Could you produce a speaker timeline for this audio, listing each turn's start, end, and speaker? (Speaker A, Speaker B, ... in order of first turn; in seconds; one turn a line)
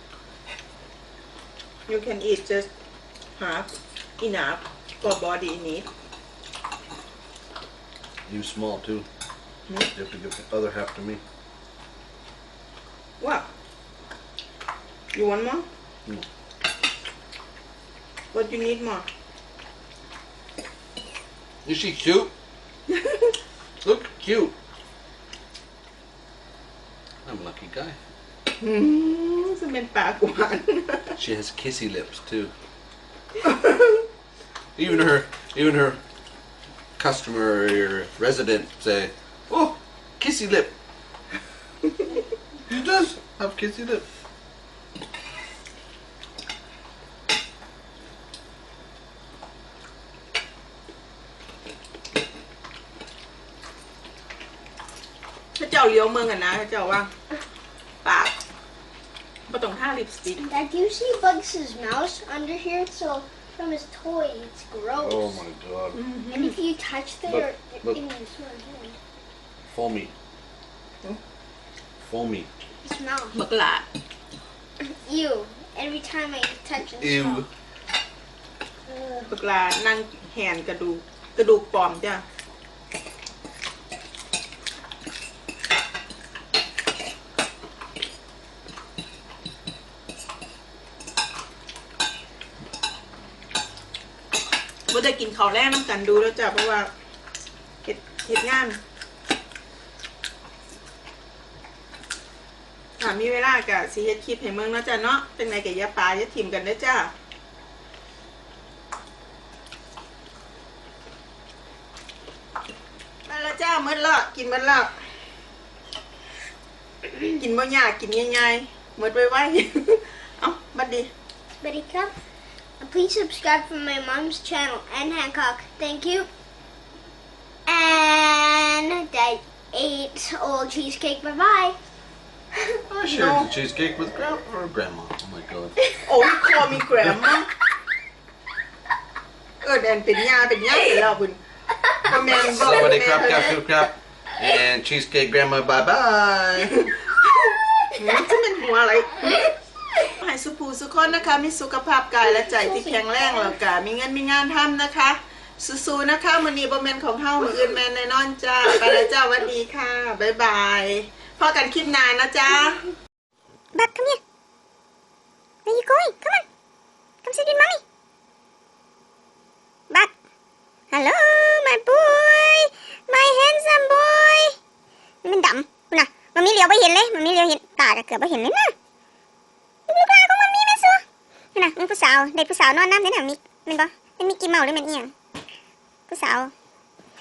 Speaker A: 1.9-2.7
Speaker A: 3.4-5.9
Speaker B: 8.3-9.1
Speaker B: 9.9-11.2
Speaker A: 13.2-13.5
Speaker A: 15.1-15.7
Speaker A: 18.3-19.1
Speaker B: 21.6-22.3
Speaker B: 23.8-24.6
Speaker B: 27.2-28.0
Speaker A: 28.6-31.2
Speaker B: 31.2-32.5
Speaker B: 34.8-36.0
Speaker B: 37.0-40.7
Speaker B: 42.7-44.0
Speaker A: 55.6-57.1
Speaker A: 58.0-58.4
Speaker A: 59.5-60.5
Speaker C: 60.5-65.4
Speaker B: 65.0-66.0
Speaker A: 65.9-66.6
Speaker C: 66.3-69.0
Speaker B: 67.3-68.0
Speaker B: 69.7-70.1
Speaker B: 72.0-72.5
Speaker C: 72.8-73.4
Speaker A: 73.3-73.9
Speaker C: 74.8-77.4
Speaker B: 77.0-77.5
Speaker C: 78.9-79.3
Speaker A: 79.3-82.2
Speaker A: 94.9-96.9
Speaker A: 97.8-98.8
Speaker A: 103.0-107.1
Speaker A: 113.3-115.0
Speaker A: 117.4-121.1
Speaker C: 121.6-122.1
Speaker C: 122.8-126.3
Speaker C: 127.7-131.8
Speaker B: 132.9-135.8
Speaker A: 133.1-133.5
Speaker A: 136.1-137.5
Speaker A: 139.6-141.4
Speaker A: 142.0-143.6
Speaker B: 142.3-146.9
Speaker A: 147.9-149.5
Speaker A: 150.1-162.8
Speaker D: 163.7-164.2
Speaker D: 165.7-166.4
Speaker D: 167.2-167.8
Speaker D: 170.9-174.6
Speaker D: 175.2-178.7
Speaker D: 179.9-181.0
Speaker D: 181.6-185.1
Speaker D: 186.1-186.5